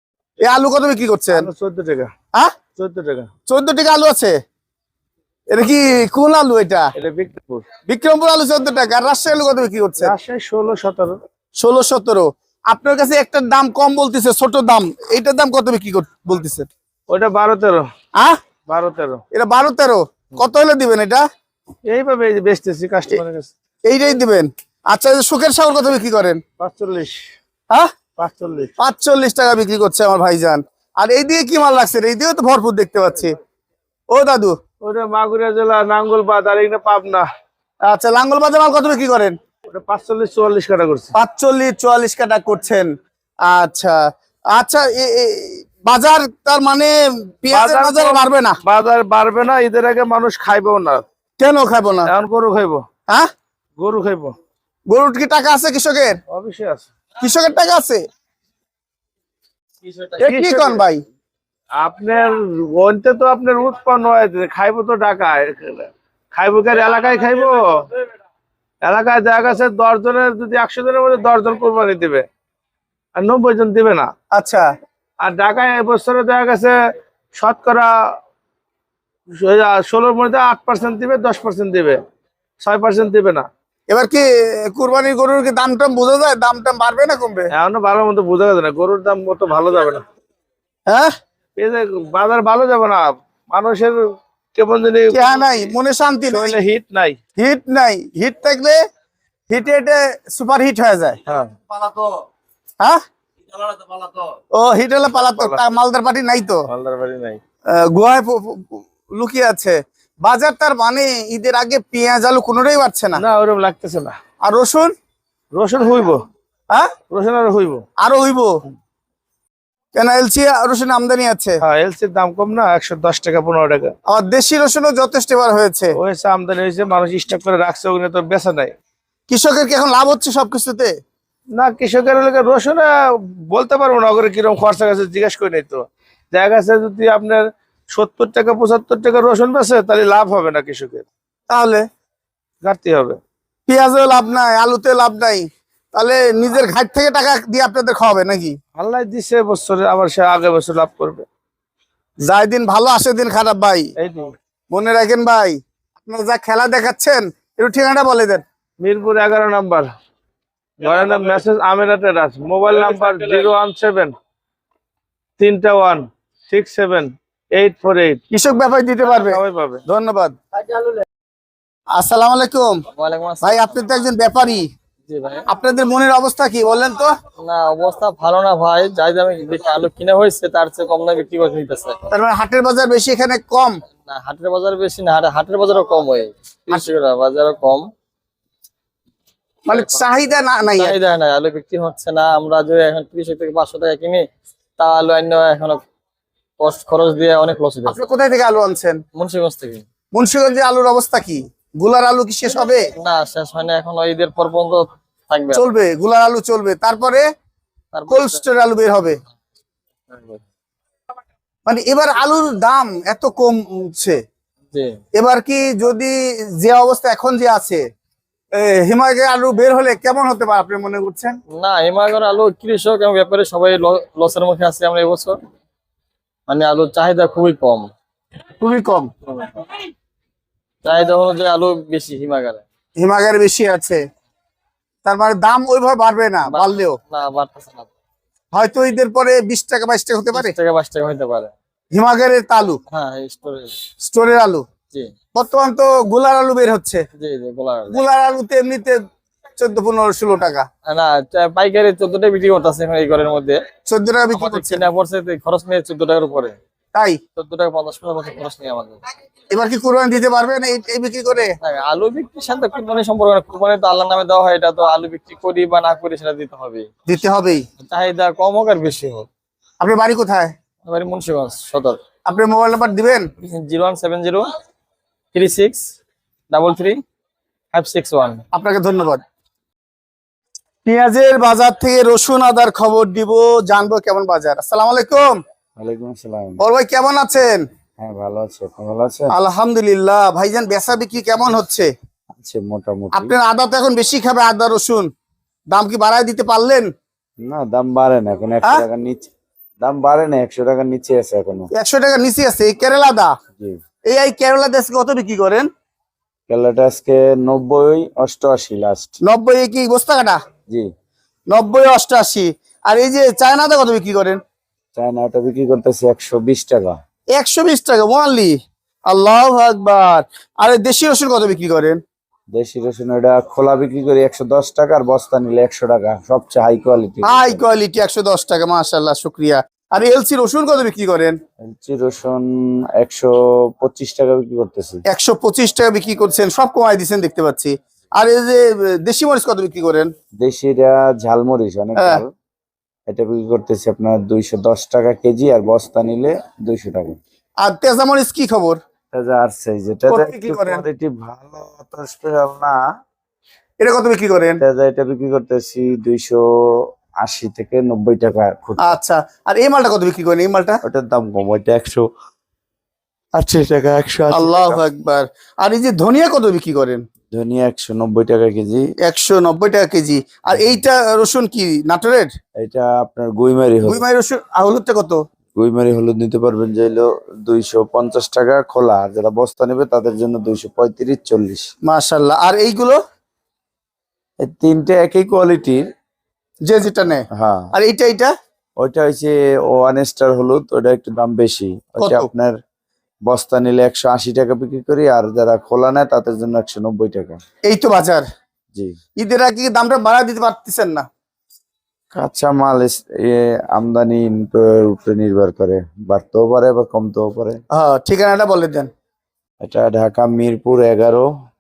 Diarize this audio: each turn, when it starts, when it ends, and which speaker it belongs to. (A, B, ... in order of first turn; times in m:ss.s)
0:00.4-0:01.5 A
0:01.3-0:02.1 B
0:02.8-0:03.3 B
0:03.5-0:04.4 A
0:05.5-0:06.9 A
0:07.0-0:07.7 B
0:07.9-0:10.1 A
0:10.0-0:11.2 B
0:11.6-0:16.7 A
0:17.1-0:17.8 B
0:18.7-0:19.2 B
0:19.3-0:21.2 A
0:21.9-0:23.5 B
0:23.8-0:26.4 A
0:26.6-0:27.2 B
0:28.2-0:28.7 B
0:28.8-0:33.4 A
0:34.1-0:34.6 A
0:34.8-0:37.3 B
0:37.9-0:39.4 A
0:39.7-0:41.1 B
0:41.2-0:42.9 A
0:43.5-0:44.0 A
0:44.5-0:48.6 A
0:47.5-0:51.0 B
0:51.4-0:52.1 A
0:52.1-0:52.8 B
0:53.8-0:54.3 B
0:54.9-0:56.2 A
0:56.3-0:56.9 B
0:57.2-0:58.0 A
1:00.2-1:01.0 A
1:00.2-1:00.8 B
1:01.8-1:07.9 B
1:08.8-1:12.3 B
1:13.2-1:14.1 B
1:14.3-1:14.7 A
1:15.2-1:16.8 B
1:17.4-1:17.9 B
1:19.3-1:22.0 B
1:22.6-1:23.5 B
1:23.9-1:27.5 A
1:27.5-1:30.0 B
1:30.9-1:31.1 A
1:31.6-1:34.0 B
1:34.6-1:35.7 B
1:35.1-1:36.6 A
1:36.3-1:37.2 B
1:37.4-1:38.8 A
1:39.5-1:41.2 A
1:41.3-1:41.6 B
1:44.5-1:46.6 A
1:45.1-1:45.6 B
1:46.7-1:47.4 B
1:47.7-1:53.2 A
1:53.2-1:54.2 B
1:54.4-1:54.9 A
1:55.5-1:56.2 B
1:57.1-1:57.8 B
1:58.0-1:58.6 A
2:00.0-2:01.6 A
2:01.6-2:03.9 B
2:04.1-2:05.9 A
2:06.0-2:08.7 B
2:09.3-2:11.0 A
2:11.6-2:21.1 B
2:21.5-2:21.8 A
2:22.6-2:23.2 B
2:23.7-2:28.6 A
2:28.8-2:31.3 B
2:32.2-2:33.9 A
2:34.0-2:34.3 B
2:34.7-2:38.4 A
2:38.8-2:39.9 B
2:40.8-2:44.1 B
2:45.4-2:48.2 B
2:48.3-2:50.4 A
2:49.1-2:49.8 B
2:52.0-2:52.8 A
2:53.0-2:53.8 C
2:53.4-2:54.7 A
2:55.1-2:55.5 C
2:55.5-2:57.1 A
2:57.4-3:02.0 C
3:02.1-3:03.8 A
3:04.1-3:07.9 C
3:09.7-3:11.0 A
3:09.7-3:10.0 C
3:10.7-3:14.2 C
3:14.8-3:15.8 C
3:16.6-3:18.0 C
3:17.9-3:19.0 A
3:19.2-3:19.8 C
3:20.1-3:22.9 A
3:23.0-3:25.6 C
3:25.5-3:27.2 A
3:27.9-3:28.4 C
3:28.1-3:29.2 A
3:30.1-3:30.4 C
3:31.7-3:34.2 A
3:34.7-3:35.0 C
3:35.2-3:37.8 A
3:38.6-3:41.4 A
3:41.5-3:45.4 C
3:46.5-3:47.9 C
3:48.6-3:49.1 A
3:49.3-3:49.6 C
3:50.8-3:52.6 C
3:53.0-3:54.0 A
3:55.0-3:57.0 A
3:56.5-3:57.9 C
3:58.5-4:00.5 A
4:00.3-4:01.5 C
4:01.9-4:02.8 A
4:02.9-4:03.8 C
4:04.0-4:04.6 A
4:05.4-4:07.0 A
4:07.2-4:08.0 C
4:07.9-4:09.0 A
4:09.6-4:10.7 A
4:10.9-4:13.6 C
4:13.9-4:14.8 A
4:14.3-4:16.6 C
4:16.9-4:17.2 A
4:17.4-4:19.0 C
4:19.5-4:21.6 A
4:21.4-4:26.9 C
4:27.1-4:27.6 A
4:27.8-4:29.3 C
4:29.8-4:30.5 A
4:30.8-4:32.0 C
4:32.3-4:33.3 A
4:33.4-4:34.5 C
4:35.3-4:35.9 C
4:36.5-4:37.0 C
4:37.7-4:38.4 C
4:38.5-4:39.2 A
4:40.8-4:45.4 A
4:45.8-4:46.6 D
4:46.6-4:47.6 A
4:48.0-4:49.4 D
4:49.3-4:51.9 A
4:52.3-4:53.4 D
4:53.1-4:55.1 A
4:55.7-4:56.9 A
4:57.4-5:01.7 D
5:01.7-5:03.4 A
5:04.0-5:05.7 A
5:06.5-5:09.2 D
5:09.2-5:10.4 A
5:11.5-5:14.4 A
5:15.0-5:17.0 D
5:17.3-5:22.0 A
5:22.5-5:27.6 D
5:27.2-5:31.4 A
5:31.6-5:35.0 D
5:35.1-5:40.1 A
5:40.4-5:42.3 D
5:42.0-5:42.2 A
5:43.1-5:47.2 D
5:47.6-5:48.8 A
5:49.1-5:52.8 D
5:50.1-5:50.8 A
5:53.8-5:54.6 A
5:54.6-5:59.0 D
5:58.8-6:00.8 A
6:00.8-6:02.1 D
6:03.3-6:04.8 D
6:04.3-6:07.0 A
6:07.3-6:08.9 D
6:09.0-6:12.3 A
6:10.5-6:10.8 D
6:12.6-6:14.0 D
6:13.9-6:15.2 A
6:15.6-6:21.7 D
6:21.8-6:23.0 A
6:24.4-6:25.8 D
6:26.6-6:28.3 A
6:27.3-6:27.7 D
6:28.8-6:32.6 D
6:32.0-6:32.3 A
6:33.3-6:37.4 D
6:37.6-6:38.2 A
6:39.2-6:41.1 A
6:42.1-6:47.6 D
6:47.7-6:48.9 A
6:49.6-6:51.3 D